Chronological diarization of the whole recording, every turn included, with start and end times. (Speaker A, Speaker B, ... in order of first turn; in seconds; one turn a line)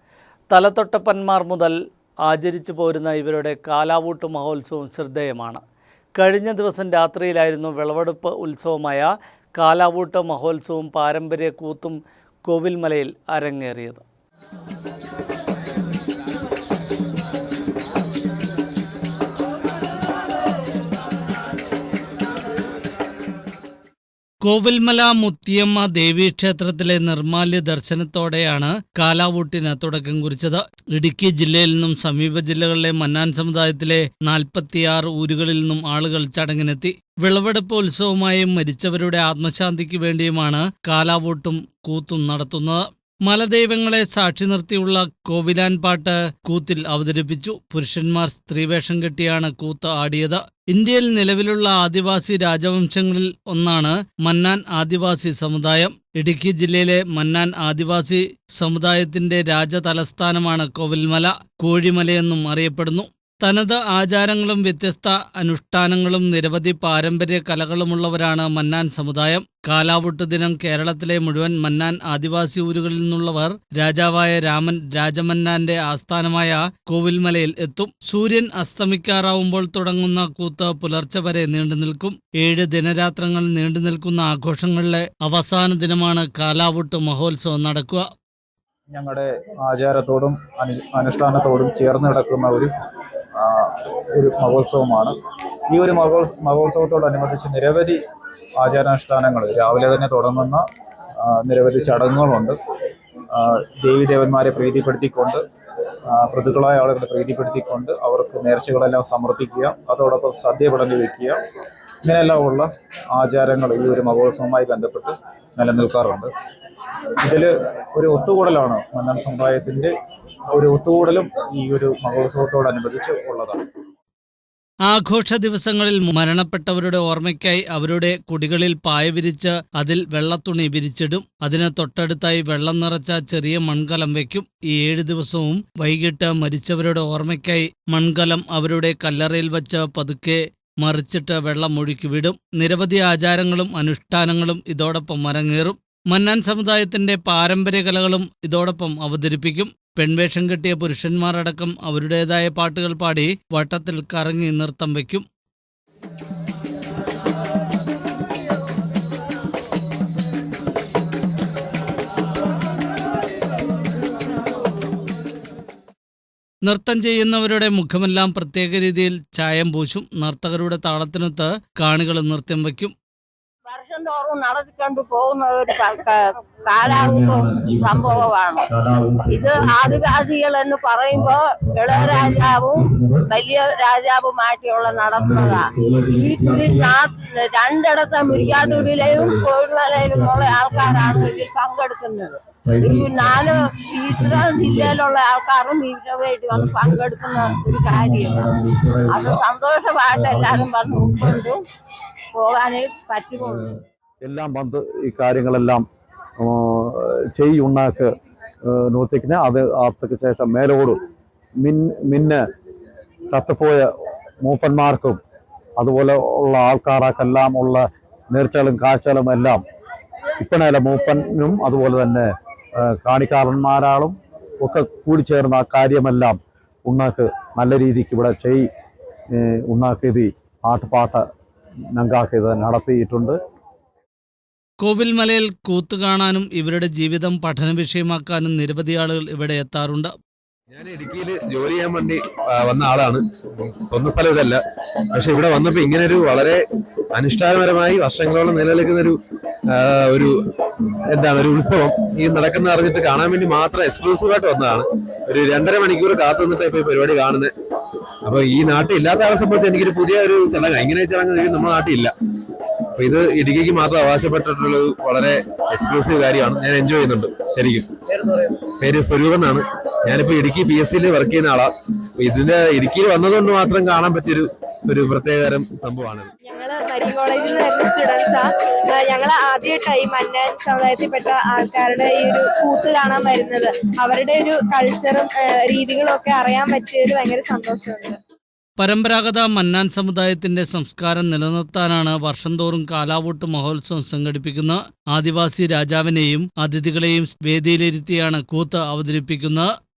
Speaker A: 0.5-5.6
Speaker A: 6.1-14.0
Speaker A: 24.4-88.1
Speaker B: 88.9-92.7
Speaker B: 93.4-95.1
Speaker B: 95.7-98.0
Speaker B: 98.6-100.6
Speaker B: 101.2-102.6
Speaker B: 103.3-105.4
Speaker B: 106.1-111.4
Speaker B: 112.0-116.3
Speaker B: 117.2-119.9
Speaker B: 120.5-123.6
Speaker A: 124.8-155.2
Speaker A: 166.6-172.9
Speaker C: 173.7-178.7
Speaker D: 176.8-180.2
Speaker C: 179.2-198.5
Speaker D: 181.1-183.3
Speaker D: 184.9-187.0
Speaker D: 188.1-191.4
Speaker D: 192.7-195.0
Speaker D: 196.5-199.4
Speaker C: 199.1-201.6
Speaker D: 200.1-201.4
Speaker C: 202.3-203.6
Speaker D: 203.3-203.6
Speaker D: 204.2-205.8
Speaker D: 206.4-208.1
Speaker D: 208.7-211.0
Speaker D: 211.6-212.4
Speaker D: 213.3-213.9
Speaker D: 214.4-215.2
Speaker D: 215.8-219.6
Speaker D: 220.4-222.3
Speaker D: 222.9-226.3
Speaker D: 226.9-228.7
Speaker D: 229.4-231.2
Speaker D: 231.9-233.3
Speaker A: 234.8-240.1
Speaker E: 240.7-243.2
Speaker E: 243.9-244.6
Speaker E: 245.1-246.6
Speaker E: 247.1-250.4
Speaker E: 251.1-257.5
Speaker E: 258.2-262.1
Speaker E: 262.9-276.3
Speaker F: 276.4-288.2
Speaker A: 288.8-299.7